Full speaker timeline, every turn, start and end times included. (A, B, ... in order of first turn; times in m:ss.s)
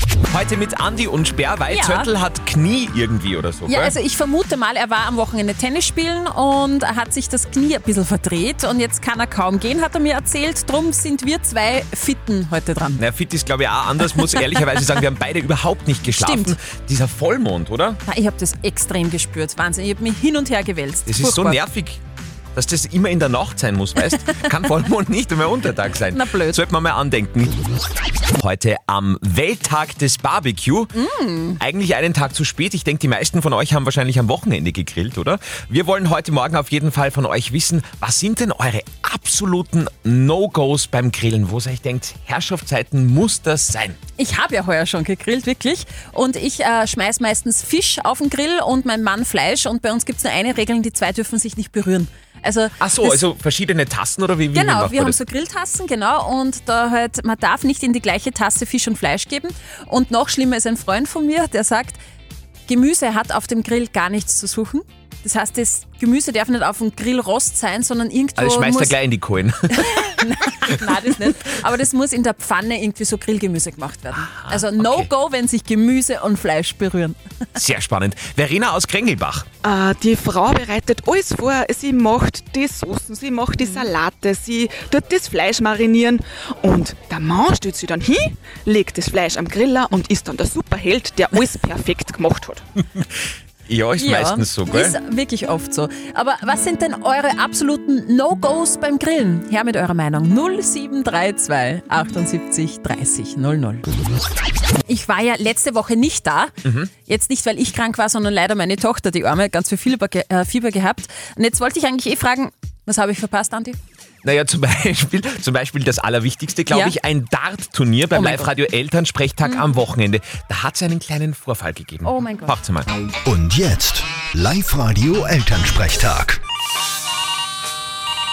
0:00.3-0:03.9 A
0:01.7-0:02.1 B
0:03.7-0:13.0 B
0:13.0-0:18.0 A
0:14.2-0:14.6 B
0:16.1-0:16.6 B
0:18.0-0:21.6 B
0:21.1-0:22.0 A
0:22.5-0:27.5 A
0:26.1-0:26.6 B
0:28.4-0:30.9 A
0:30.9-0:31.6 B
0:31.6-0:44.0 A
0:44.2-0:53.2 B
0:52.8-0:55.2 A
0:54.5-1:02.0 B
1:02.7-1:09.0 B
1:08.4-1:10.2 A
1:09.8-1:17.2 B
1:14.2-1:15.1 A
1:17.6-1:19.4 A
1:19.6-1:32.6 C
1:33.7-1:35.0 A
1:34.0-1:43.8 B
1:44.8-1:46.5 B
1:47.0-1:53.8 B
1:54.2-2:02.9 A
1:56.7-1:56.9 B
1:58.1-1:58.5 B
2:02.0-2:02.5 B
2:03.2-2:06.4 D